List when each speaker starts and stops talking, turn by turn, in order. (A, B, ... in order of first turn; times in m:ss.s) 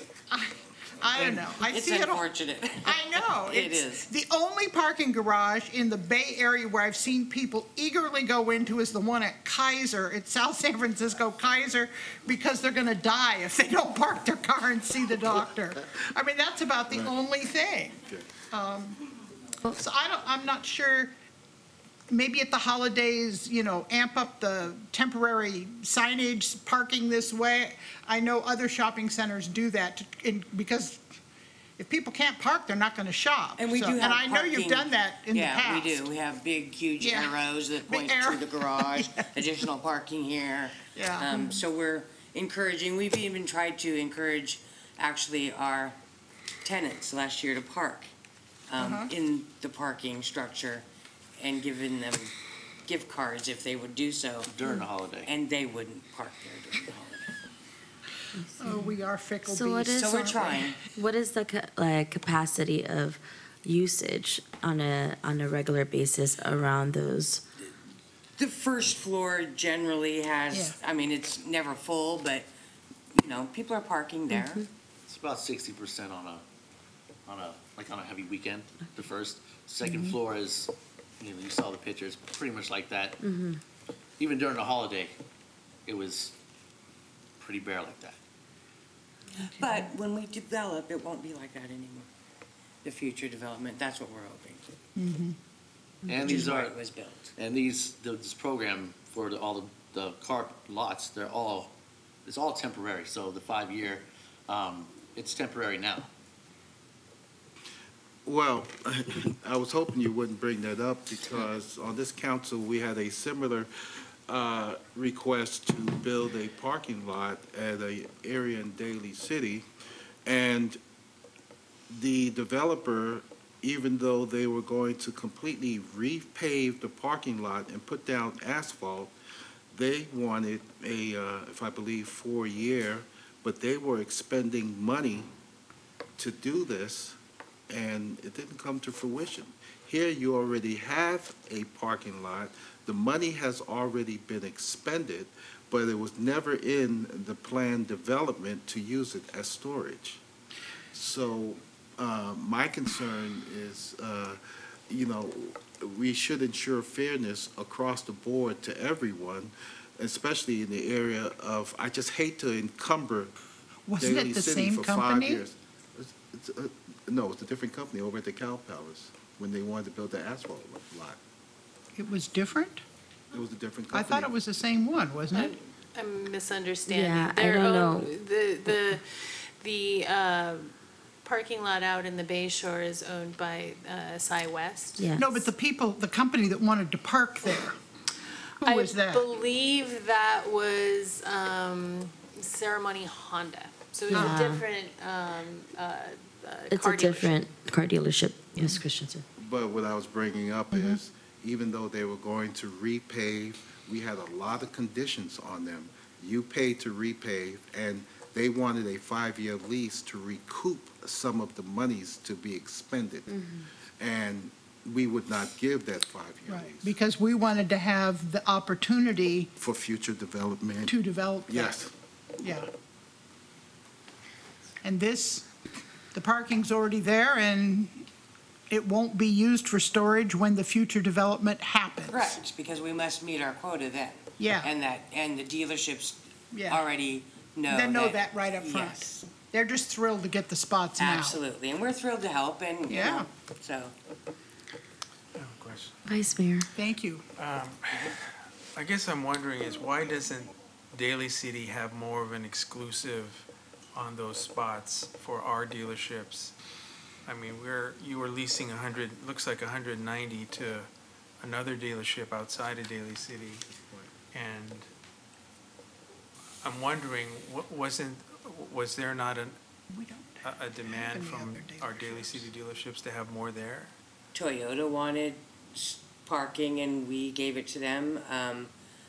0:00.3-0:02.2 A
0:01.2-0:04.1 B
0:02.8-0:18.0 A
0:18.5-0:19.0 A
0:19.6-0:21.1 A
0:22.1-0:31.0 A
0:31.8-0:36.0 A
0:33.6-0:46.0 B
0:37.0-0:37.4 A
0:37.9-0:39.3 A
0:40.9-0:41.6 A
0:46.6-0:48.1 B
0:48.7-0:50.9 B
0:48.8-0:49.1 A
0:51.4-0:52.3 B
0:52.8-0:54.7 B
0:54.5-0:55.3 C
0:55.2-0:57.3 B
0:58.4-1:00.2 D
0:58.6-1:00.7 A
0:59.9-1:00.8 B
1:00.9-1:07.4 D
1:08.4-1:12.5 B
1:10.5-1:10.8 A
1:13.1-1:14.7 B
1:15.1-1:16.4 C
1:17.3-1:23.2 C
1:19.8-1:20.2 A
1:23.2-1:23.6 D
1:24.2-1:25.2 C
1:25.9-1:26.4 C
1:27.4-1:28.2 C
1:29.4-1:29.7 A
1:29.5-1:32.1 B
1:32.8-1:34.6 B
1:35.0-1:35.4 A
1:36.1-1:36.8 C
1:36.1-1:37.3 B
1:37.4-1:46.1 C
1:48.3-1:53.7 E
1:54.3-1:59.7 E
2:00.3-2:00.8 E
2:01.9-2:09.1 E
2:09.7-2:15.3 E
2:16.2-2:17.2 E
2:17.7-2:30.2 E
2:30.9-2:43.3 E
2:43.9-2:45.4 A
2:44.0-2:51.2 E
2:52.0-2:52.8 A
2:53.3-2:54.3 E
2:53.9-2:55.5 A
2:55.3-3:05.5 F
2:56.9-2:58.0 D
3:05.0-3:05.3 D
3:05.2-3:07.8 A
3:08.6-3:09.2 A
3:08.6-3:17.7 F
3:14.1-3:14.4 A
3:14.1-3:14.6 D
3:16.7-3:19.2 D
3:18.6-3:18.8 F
3:19.4-3:33.4 E
3:20.7-3:21.0 A
3:34.0-3:37.0 E
3:36.5-3:39.5 A
3:39.6-3:41.0 E
3:40.9-3:41.8 A
3:41.5-3:41.9 E
3:42.4-3:42.7 A
3:44.8-3:45.5 A
3:46.1-3:48.0 A
3:48.7-3:52.4 A
3:52.1-3:59.2 B
3:54.4-3:54.7 A
3:56.5-3:56.8 A
3:57.7-4:01.4 A
4:01.0-4:03.9 B
4:02.9-4:03.3 A
4:05.4-4:06.0 G
4:06.1-4:06.6 D
4:06.7-4:07.2 A
4:07.4-4:08.2 G
4:08.8-4:16.5 G
4:17.3-4:20.9 G
4:21.4-4:23.6 G
4:23.8-4:24.1 E
4:24.3-4:24.9 G
4:26.6-4:29.6 G
4:29.9-4:32.5 A
4:30.4-4:33.9 G
4:34.3-4:38.7 B